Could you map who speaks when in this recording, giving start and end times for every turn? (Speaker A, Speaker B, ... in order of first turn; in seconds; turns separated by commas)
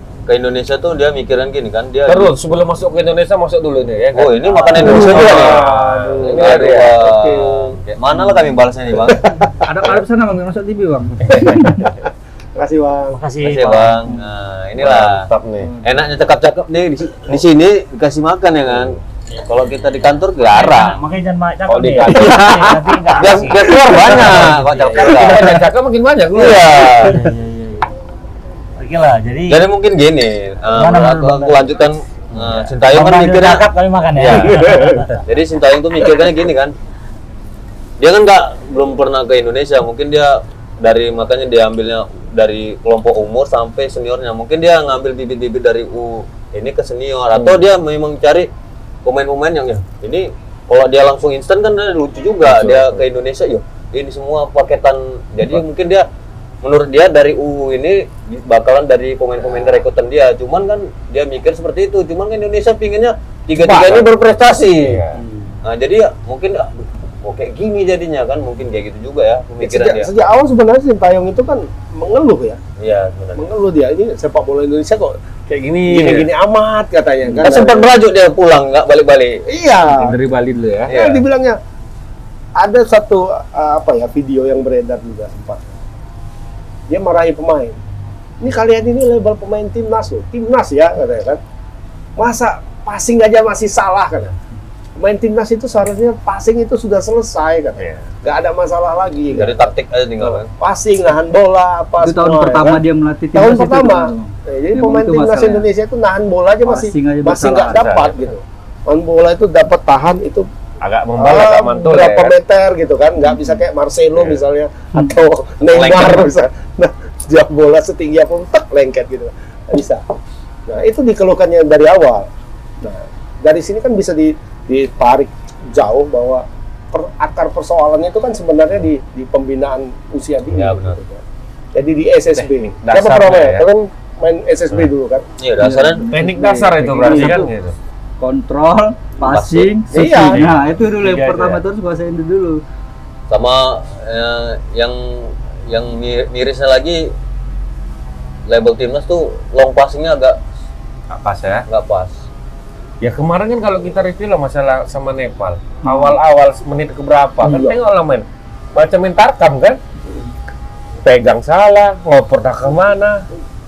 Speaker A: 0.3-2.4, Speaker B: 2.1-7.0, Speaker A: 4.1-9.3, Speaker C: 4.8-7.7, Speaker D: 5.2-6.2, Speaker D: 8.2-8.5, Speaker C: 9.1-9.9, Speaker D: 9.6-11.9, Speaker C: 11.3-13.2, Speaker E: 13.1-14.1, Speaker A: 13.4-15.3, Speaker B: 14.8-15.7, Speaker D: 15.6-16.1, Speaker A: 15.8-21.0, Speaker E: 20.5-25.3, Speaker B: 21.7-27.1, Speaker A: 22.1-25.6, Speaker A: 26.3-27.2, Speaker E: 27.0-27.9, Speaker E: 28.8-29.6, Speaker A: 29.5-36.7, Speaker E: 30.7-31.7, Speaker E: 32.4-35.1, Speaker A: 38.0-48.5, Speaker B: 47.3-47.6, Speaker A: 49.0-56.1, Speaker B: 52.4-53.1, Speaker A: 56.6-65.0, Speaker C: 63.6-64.1, Speaker B: 64.8-65.2, Speaker A: 65.6-70.1, Speaker C: 69.6-72.6, Speaker A: 72.8-73.5, Speaker C: 73.4-75.2, Speaker B: 75.5-76.3, Speaker C: 75.9-77.9, Speaker A: 77.3-79.4, Speaker C: 79.5-80.2, Speaker B: 79.9-81.1, Speaker A: 80.9-81.2, Speaker C: 80.9-81.6, Speaker C: 82.6-85.7, Speaker C: 86.9-87.8, Speaker C: 88.4-91.4, Speaker C: 92.2-94.3, Speaker C: 95.0-110.5, Speaker B: 97.8-98.1, Speaker A: 99.3-100.5, Speaker D: 102.0-105.7, Speaker D: 106.6-107.9, Speaker B: 107.6-108.2, Speaker B: 110.8-112.3, Speaker C: 111.2-120.0, Speaker A: 115.6-116.3, Speaker C: 120.7-122.3, Speaker C: 122.8-131.2, Speaker A: 130.5-131.0, Speaker C: 131.7-135.2, Speaker B: 132.4-133.6, Speaker A: 135.4-136.1, Speaker D: 135.6-137.5, Speaker B: 136.1-137.8, Speaker C: 137.1-137.4, Speaker D: 138.2-142.6, Speaker A: 139.2-139.7, Speaker C: 139.9-140.4, Speaker B: 140.0-141.6, Speaker A: 143.3-147.1, Speaker A: 148.5-150.4, Speaker B: 151.1-151.6, Speaker A: 151.7-152.2, Speaker B: 153.0-159.8, Speaker D: 155.8-156.2, Speaker C: 157.4-157.8, Speaker B: 161.0-163.2